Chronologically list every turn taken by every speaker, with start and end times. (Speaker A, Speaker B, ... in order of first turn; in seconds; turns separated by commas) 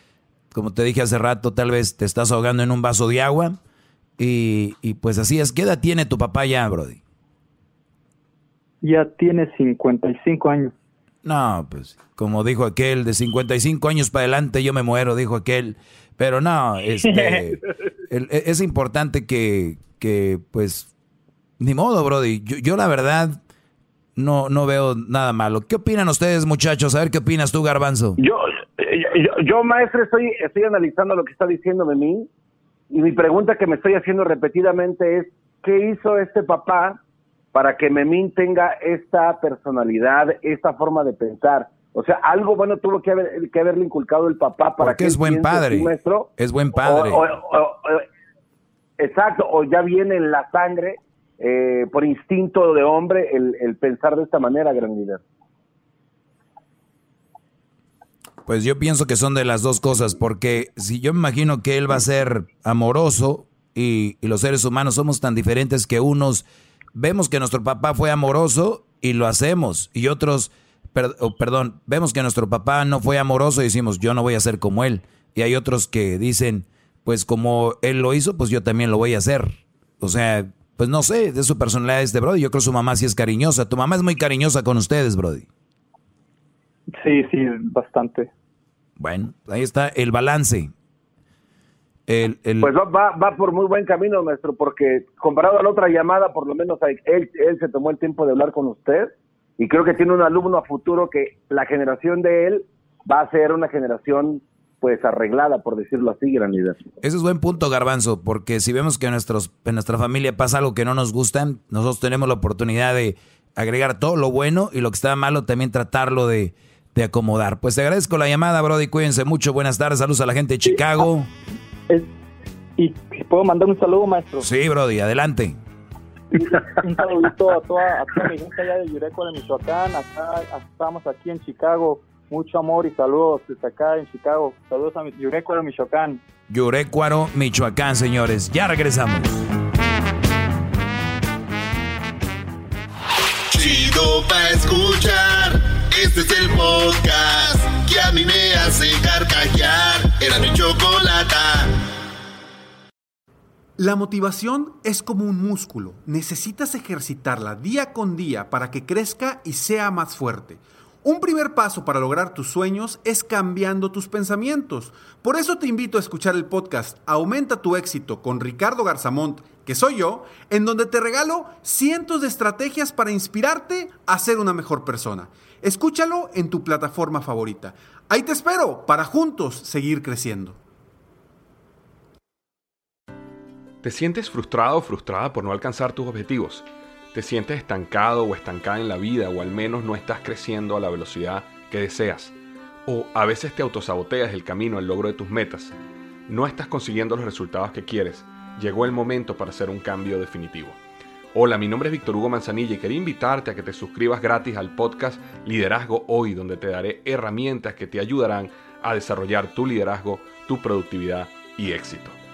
Speaker A: 0.5-3.6, Speaker A: 4.2-7.0, Speaker B: 8.8-10.7, Speaker A: 11.2-20.9, Speaker A: 21.6-23.4, Speaker A: 24.2-28.2, Speaker C: 28.2-32.3, Speaker C: 32.9-37.0, Speaker C: 37.5-48.0, Speaker A: 44.8-47.2, Speaker C: 49.0-55.2, Speaker A: 58.5-85.5, Speaker B: 86.9-88.3, Speaker A: 89.0-90.7, Speaker A: 92.1-92.7, Speaker C: 92.6-106.8, Speaker A: 107.0-121.3, Speaker B: 122.8-124.5, Speaker A: 124.4-125.6, Speaker B: 126.4-136.2, Speaker A: 136.5-139.4, Speaker D: 143.5-151.8, Speaker E: 153.8-180.6, Speaker F: 183.8-192.3, Speaker F: 192.9-195.7, Speaker F: 196.3-200.8, Speaker F: 201.3-212.2